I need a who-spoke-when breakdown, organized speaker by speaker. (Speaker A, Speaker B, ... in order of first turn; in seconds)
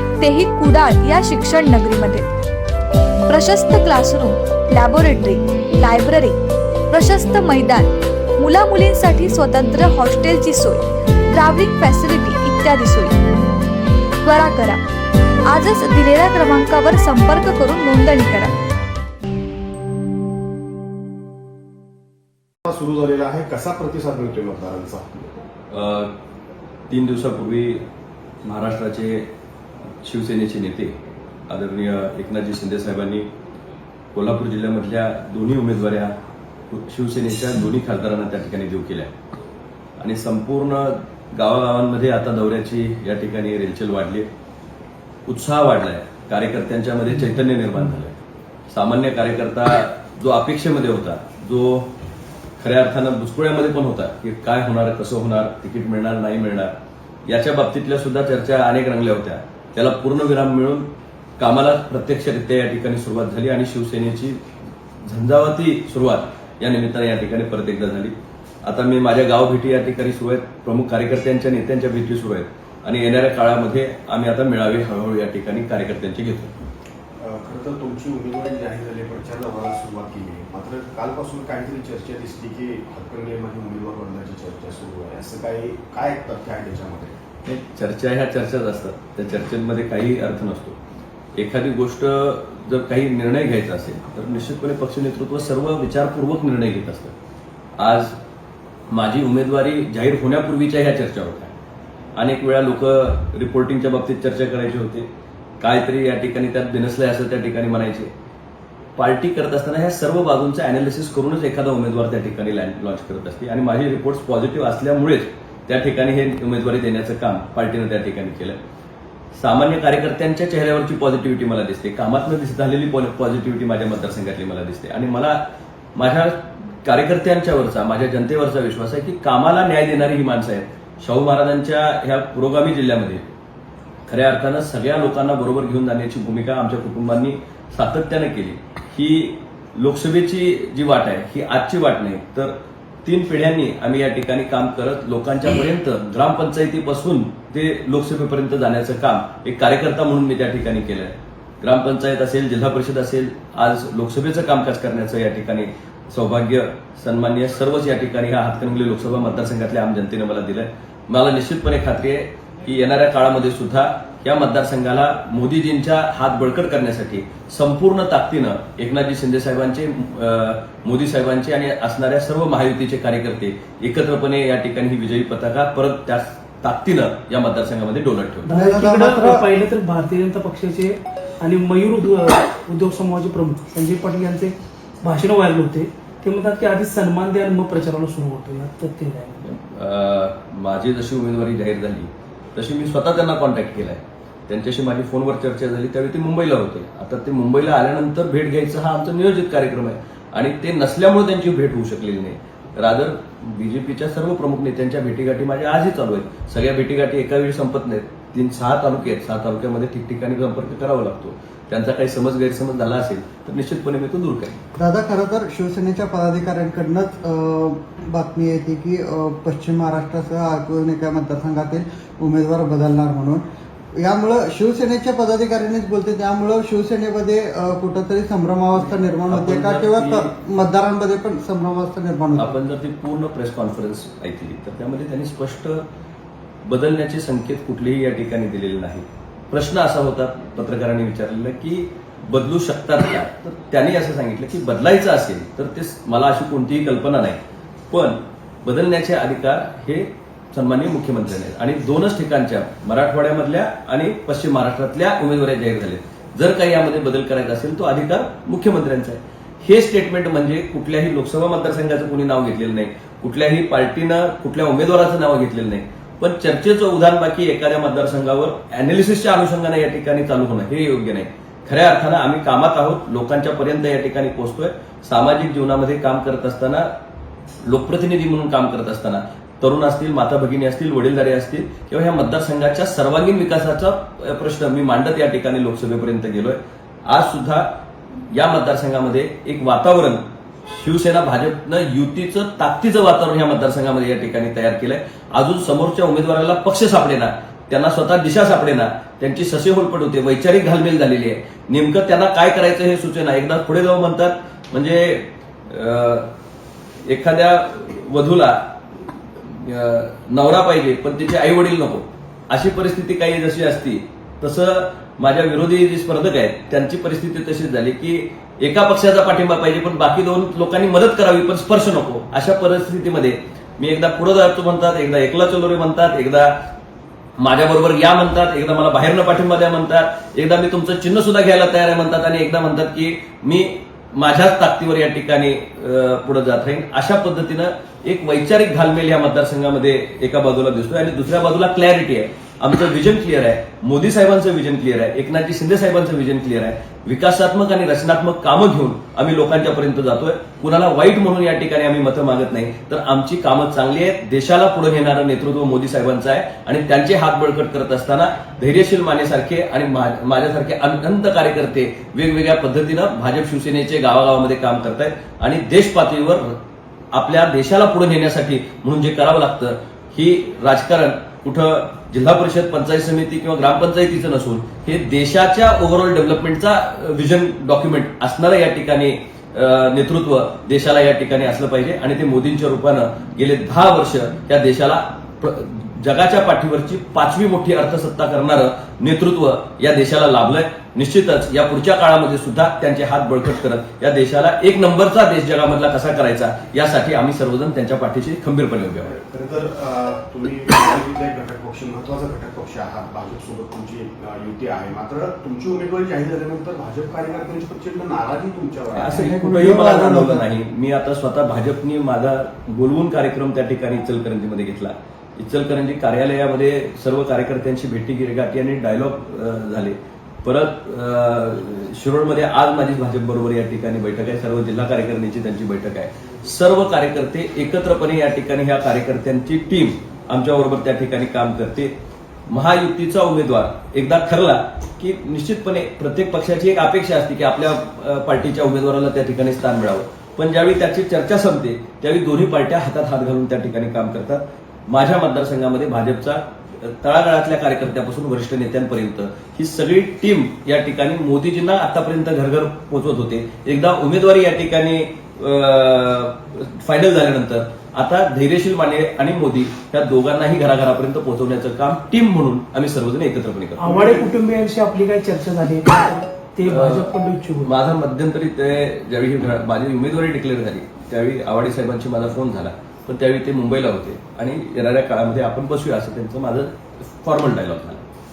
Speaker A: 0.2-2.3, 3.3-6.4, 6.9-7.9, 8.4-10.8, 11.3-13.2, 14.2-14.8, 15.5-18.5
Speaker B: 22.7-25.3, 77.2-87.2, 399.0-409.6, 463.9-464.3
Speaker C: 25.7-26.1, 26.9-27.8, 28.4-29.3, 30.0-31.0, 31.5-33.3, 34.1-36.2, 36.7-39.1, 40.0-44.3, 45.3-48.2, 48.7-51.9, 52.6-56.7, 57.3-64.4, 65.0-76.5, 87.5-90.8, 91.4-97.2, 97.8-98.2, 98.9-101.5, 102.2-105.1, 105.6-108.1, 109.0-118.6, 119.3-125.4, 126.0-133.2, 134.1-178.5, 189.4-214.6, 229.2-230.3, 232.4-235.9, 236.7-247.4, 247.9-276.9, 277.6-287.8, 288.3-306.3, 307.1-308.7, 309.5-326.6, 327.4-366.6, 367.1-399.1, 408.9-431.9, 432.5-463.9, 466.7-467.1, 467.6-478.0
Speaker D: 178.4-189.4, 463.8-467.7
Speaker E: 178.5-179.4, 214.8-223.4, 224.0-232.6, 409.1-410.5